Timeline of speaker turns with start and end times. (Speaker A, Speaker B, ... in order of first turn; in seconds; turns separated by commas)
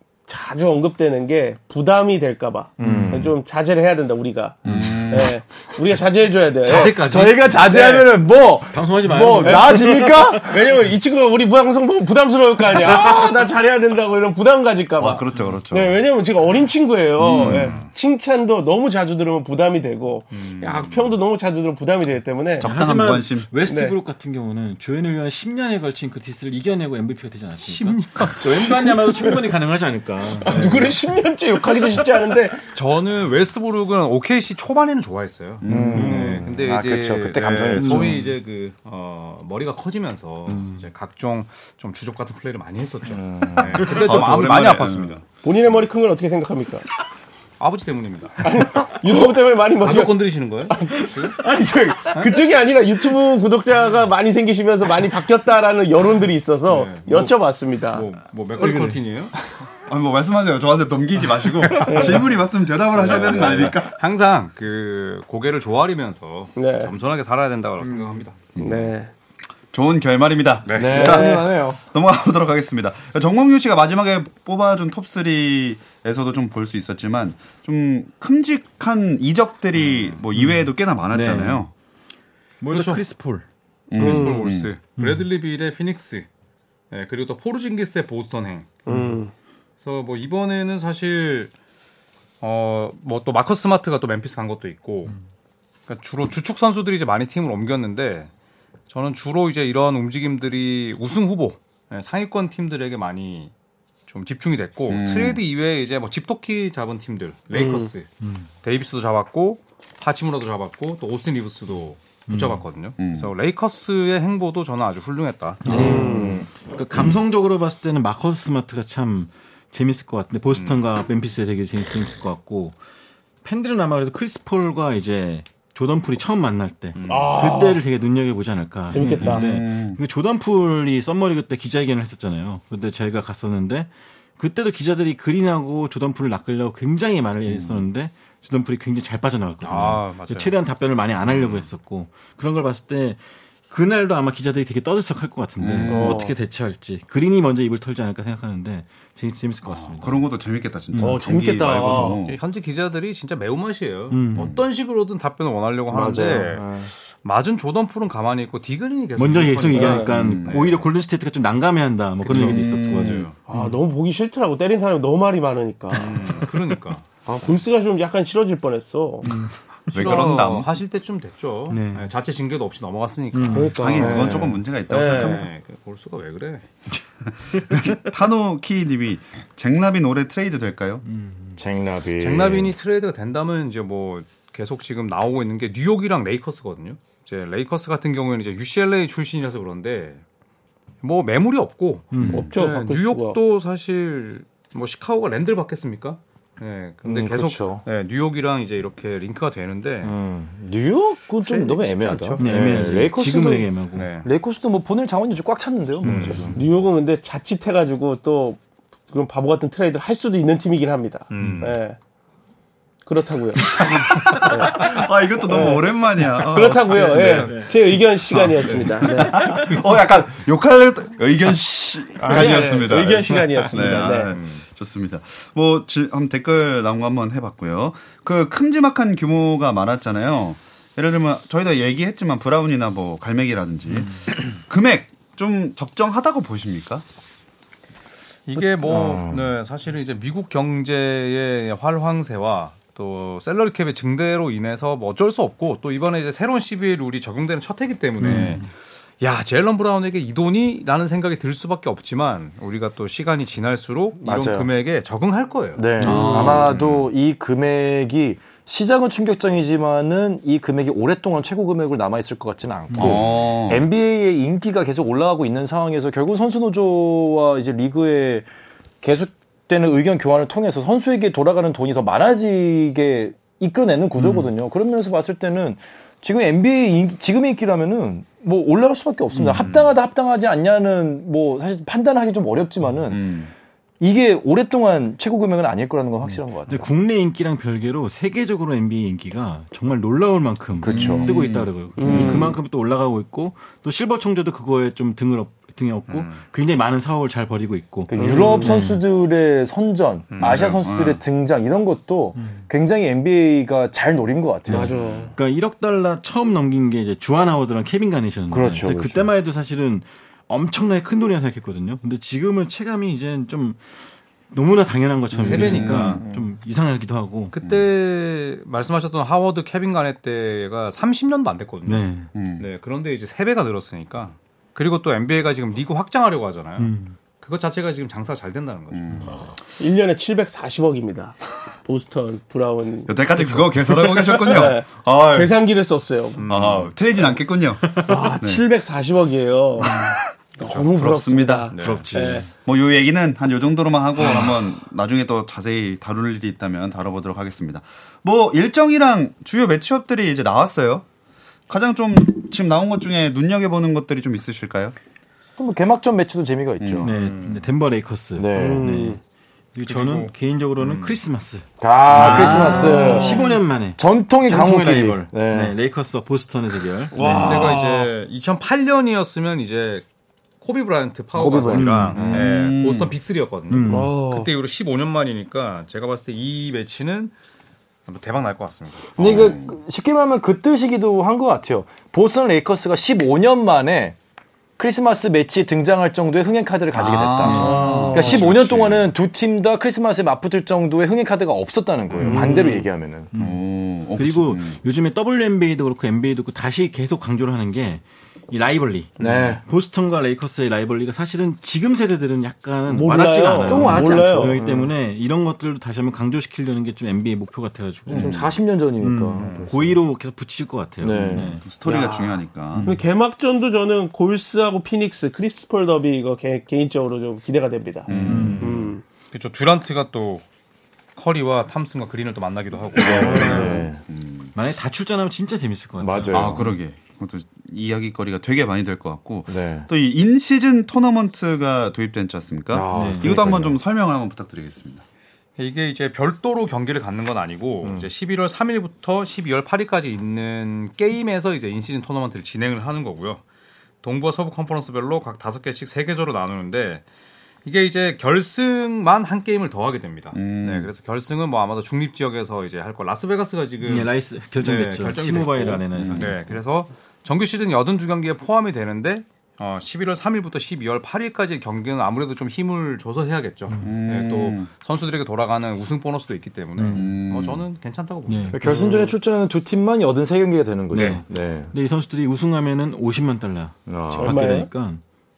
Speaker A: 0.3-8.1, Speaker B: 2.8-3.3, Speaker C: 2.8-3.3, Speaker D: 4.6-5.3, Speaker E: 6.6-7.6, Speaker B: 6.7-10.6, Speaker C: 8.7-10.4, Speaker A: 9.4-22.7, Speaker D: 15.0-16.0, Speaker D: 17.2-17.8, Speaker E: 17.4-17.9, Speaker E: 20.3-21.1, Speaker D: 22.6-23.5, Speaker C: 22.6-31.0, Speaker A: 23.6-23.9, Speaker E: 27.6-28.4, Speaker A: 30.4-32.6, Speaker E: 32.7-45.2, Speaker D: 35.6-36.2, Speaker B: 35.6-38.2, Speaker C: 35.9-36.2, Speaker C: 37.7-38.2, Speaker C: 40.5-40.8, Speaker B: 43.1-44.0, Speaker D: 43.8-45.2, Speaker A: 45.4-46.8, Speaker E: 47.6-48.4, Speaker A: 48.4-58.0, Speaker E: 49.8-51.4, Speaker E: 56.7-57.4, Speaker E: 57.9-59.3, Speaker C: 58.6-59.0, Speaker D: 59.9-63.9, Speaker E: 61.6-62.2, Speaker A: 61.9-62.3, Speaker E: 62.9-68.4, Speaker B: 63.0-63.7, Speaker A: 66.5-66.9, Speaker C: 67.8-68.2, Speaker D: 68.5-68.9, Speaker A: 68.6-69.1, Speaker D: 69.7-81.7, Speaker E: 70.7-71.2, Speaker B: 70.7-71.8, Speaker A: 70.9-71.5, Speaker E: 79.9-80.2, Speaker C: 80.3-81.7, Speaker C: 82.6-83.5, Speaker E: 82.7-83.0, Speaker D: 83.9-84.7, Speaker E: 83.9-86.3, Speaker A: 84.0-84.5, Speaker C: 85.0-85.2, Speaker E: 86.9-88.8, Speaker A: 88.8-89.3, Speaker C: 88.9-89.2, Speaker E: 89.8-91.5, Speaker E: 92.4-95.1, Speaker E: 95.9-98.3, Speaker E: 98.9-103.5, Speaker E: 104.1-115.9, Speaker D: 104.9-105.4, Speaker A: 107.5-107.9, Speaker C: 112.3-112.6, Speaker D: 113.0-113.3, Speaker C: 115.6-122.8, Speaker B: 115.7-116.5, Speaker A: 115.7-116.4, Speaker E: 120.5-120.8, Speaker C: 123.4-150.2, Speaker E: 127.0-127.4, Speaker A: 127.1-127.8, Speaker A: 128.9-129.5, Speaker D: 129.2-130.0, Speaker D: 137.5-137.8, Speaker E: 139.6-140.5, Speaker E: 141.3-141.7, Speaker D: 145.6-146.2, Speaker A: 145.9-146.3, Speaker E: 149.7-150.0, Speaker D: 150.0-152.4, Speaker C: 150.9-151.2, Speaker A: 151.0-152.2, Speaker E: 151.8-160.8, Speaker C: 154.1-154.5, Speaker B: 155.9-156.9, Speaker C: 159.2-163.8, Speaker A: 159.7-160.1, Speaker D: 160.1-160.7, Speaker E: 162.2-163.3, Speaker D: 162.3-163.3, Speaker A: 163.5-166.2, Speaker E: 165.9-167.0, Speaker C: 165.9-166.2, Speaker A: 167.2-169.3, Speaker C: 169.2-170.2, Speaker D: 169.9-170.7, Speaker E: 169.9-174.2, Speaker C: 171.7-172.1, Speaker C: 173.3-173.8, Speaker A: 173.5-175.5, Speaker D: 173.7-175.5, Speaker B: 174.0-174.4, Speaker E: 174.9-176.7, Speaker C: 177.6-177.9, Speaker D: 177.6-181.0, Speaker C: 181.1-181.6, Speaker B: 181.6-182.7, Speaker E: 182.2-190.2, Speaker E: 191.0-200.1, Speaker C: 192.1-192.5, Speaker D: 192.2-192.5, Speaker A: 192.3-193.4, Speaker B: 197.0-197.8, Speaker B: 200.0-206.6, Speaker E: 201.4-202.8, Speaker C: 202.4-204.1, Speaker E: 203.9-204.3, Speaker C: 206.0-206.5, Speaker E: 206.0-206.5, Speaker A: 206.5-212.0, Speaker E: 211.3-211.8, Speaker A: 213.0-219.6, Speaker D: 214.0-217.5, Speaker E: 217.0-217.6, Speaker C: 217.2-217.7, Speaker E: 218.6-219.1, Speaker D: 218.7-237.0, Speaker A: 222.2-224.3, Speaker E: 222.2-222.6, Speaker E: 223.3-224.6, Speaker E: 238.5-248.7, Speaker B: 238.8-239.5, Speaker C: 248.2-248.6, Speaker E: 249.2-256.9, Speaker B: 254.2-254.7, Speaker B: 255.8-268.5, Speaker C: 256.0-256.6, Speaker D: 256.0-257.1, Speaker C: 262.9-263.2, Speaker D: 263.0-263.9, Speaker B: 269.0-283.3, Speaker C: 274.2-274.5, Speaker C: 279.3-279.8, Speaker D: 283.1-283.5, Speaker B: 284.0-286.9, Speaker C: 286.7-299.0, Speaker B: 290.8-291.4, Speaker D: 290.8-292.5, Speaker A: 292.0-292.6, Speaker B: 292.0-292.6, Speaker E: 296.1-296.4, Speaker B: 298.1-304.9, Speaker A: 298.1-298.8, Speaker E: 300.3-300.7, Speaker D: 300.4-301.2, Speaker A: 304.7-305.3, Speaker C: 304.7-314.0, Speaker B: 308.5-309.3, Speaker C: 314.5-317.6, Speaker D: 315.3-316.2, Speaker E: 315.4-316.2, Speaker B: 315.5-316.4, Speaker E: 317.5-329.1, Speaker D: 317.6-317.9, Speaker C: 321.9-322.3, Speaker D: 322.3-322.7, Speaker C: 326.8-327.1, Speaker D: 328.9-329.4, Speaker A: 329.8-333.4, Speaker D: 333.1-335.5, Speaker A: 334.1-336.4, Speaker E: 336.4-336.9, Speaker D: 336.4-338.6, Speaker C: 337.9-338.3, Speaker A: 338.0-342.4, Speaker D: 339.8-341.9, Speaker E: 341.7-342.1, Speaker C: 341.8-342.5, Speaker D: 342.6-351.0, Speaker D: 351.7-354.9, Speaker B: 355.6-357.1, Speaker D: 356.8-357.1, Speaker C: 357.0-359.2, Speaker E: 357.1-357.7, Speaker B: 358.4-358.9, Speaker A: 358.5-359.2, Speaker C: 359.7-367.8, Speaker E: 359.8-361.2, Speaker B: 361.8-365.8, Speaker E: 362.1-362.7, Speaker D: 362.2-362.8, Speaker A: 362.4-363.5, Speaker A: 367.1-368.1, Speaker B: 367.2-367.7, Speaker E: 367.3-370.0, Speaker E: 370.6-377.3, Speaker B: 371.3-372.5, Speaker C: 371.7-372.3, Speaker D: 372.2-373.1, Speaker C: 373.7-374.1, Speaker A: 373.9-374.5, Speaker E: 378.1-379.5, Speaker B: 379.1-384.2, Speaker D: 379.2-379.7, Speaker B: 384.8-393.3, Speaker D: 386.9-389.1, Speaker C: 387.4-388.1, Speaker A: 387.6-388.4, Speaker E: 392.1-392.4, Speaker C: 392.2-392.7, Speaker A: 392.2-392.8, Speaker C: 393.3-393.6, Speaker D: 393.4-394.8, Speaker C: 394.1-411.6, Speaker B: 399.2-399.6, Speaker A: 402.9-404.6, Speaker B: 403.6-404.9, Speaker D: 408.1-408.5, Speaker B: 408.1-410.0, Speaker B: 411.0-411.6, Speaker D: 411.6-412.9, Speaker A: 411.8-419.0, Speaker D: 418.1-418.7, Speaker B: 418.1-418.9, Speaker C: 418.2-418.8, Speaker E: 419.3-420.4, Speaker E: 421.1-423.8, Speaker B: 423.0-424.0, Speaker D: 423.2-424.5, Speaker C: 423.2-423.6, Speaker C: 424.5-426.6, Speaker B: 426.0-426.7, Speaker D: 426.3-435.0, Speaker B: 429.5-429.9, Speaker B: 432.7-433.8, Speaker C: 432.9-433.4, Speaker E: 435.6-443.4, Speaker B: 437.8-438.1, Speaker E: 444.0-447.0, Speaker E: 447.6-468.8, Speaker D: 450.3-450.9, Speaker C: 453.8-456.4, Speaker D: 455.9-456.3, Speaker C: 463.7-463.9, Speaker D: 463.8-464.7, Speaker C: 466.8-467.1, Speaker D: 466.9-467.6, Speaker C: 468.3-469.1, Speaker B: 468.5-471.7, Speaker C: 470.9-475.0, Speaker B: 473.9-474.5, Speaker A: 474.1-474.7